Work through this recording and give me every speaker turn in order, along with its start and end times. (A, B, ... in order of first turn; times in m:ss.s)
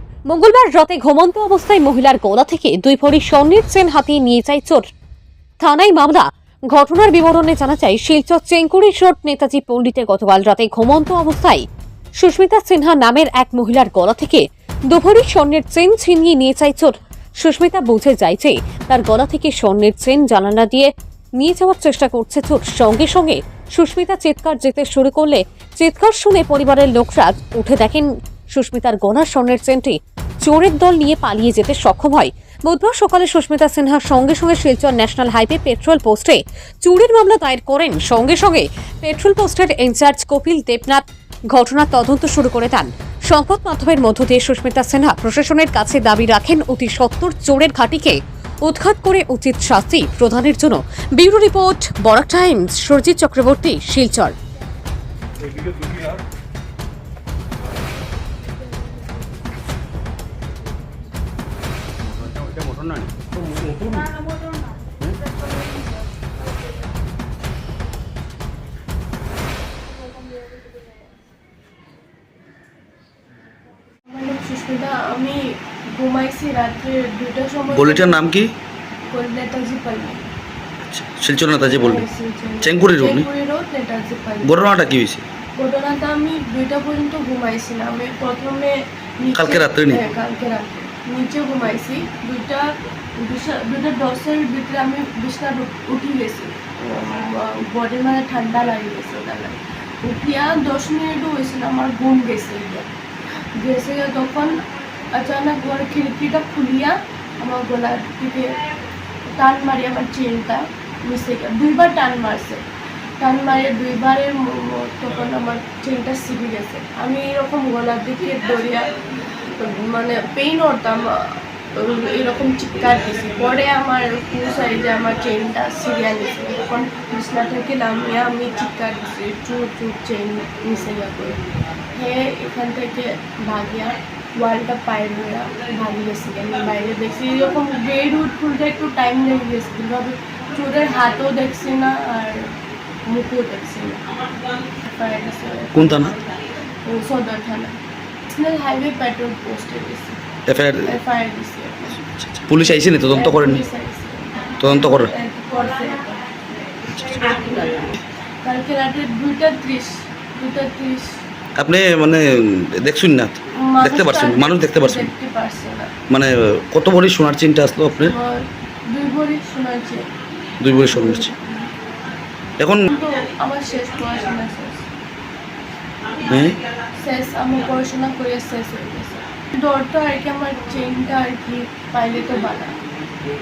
0:00.3-0:04.8 A
0:05.6-0:11.6 A
0:12.2-0:54.3 A
1:02.0-1:04.1 B
1:14.1-1:18.2 C
1:17.7-1:18.5 B
1:19.1-1:20.3 C
1:20.8-1:22.0 B
1:21.6-1:24.5 C
1:22.6-1:23.2 B
1:24.4-1:25.2 B
1:25.6-1:32.7 C
1:29.3-1:30.0 B
1:33.2-1:42.9 C
1:43.6-1:44.6 C
1:45.1-1:48.6 C
1:49.3-1:52.6 C
1:53.2-2:11.4 C
2:11.9-2:22.5 C
2:23.1-2:24.1 C
2:24.8-2:26.2 C
2:25.8-2:26.2 B
2:26.8-2:27.8 C
2:28.3-2:30.2 C
2:30.5-2:30.9 B
2:30.8-2:32.0 C
2:32.0-2:33.6 B
2:32.7-2:36.3 C
2:34.6-2:35.1 B
2:36.9-2:37.4 B
2:37.2-2:37.9 C
2:38.4-2:41.1 C
2:41.6-2:45.1 B
2:43.7-2:45.9 C
2:46.1-2:48.2 B
2:48.0-2:50.1 C
2:50.6-2:51.3 B
2:50.8-2:51.7 C
2:52.6-2:52.9 B
2:52.9-2:54.9 C
2:56.2-2:56.6 B
2:57.0-3:02.8 C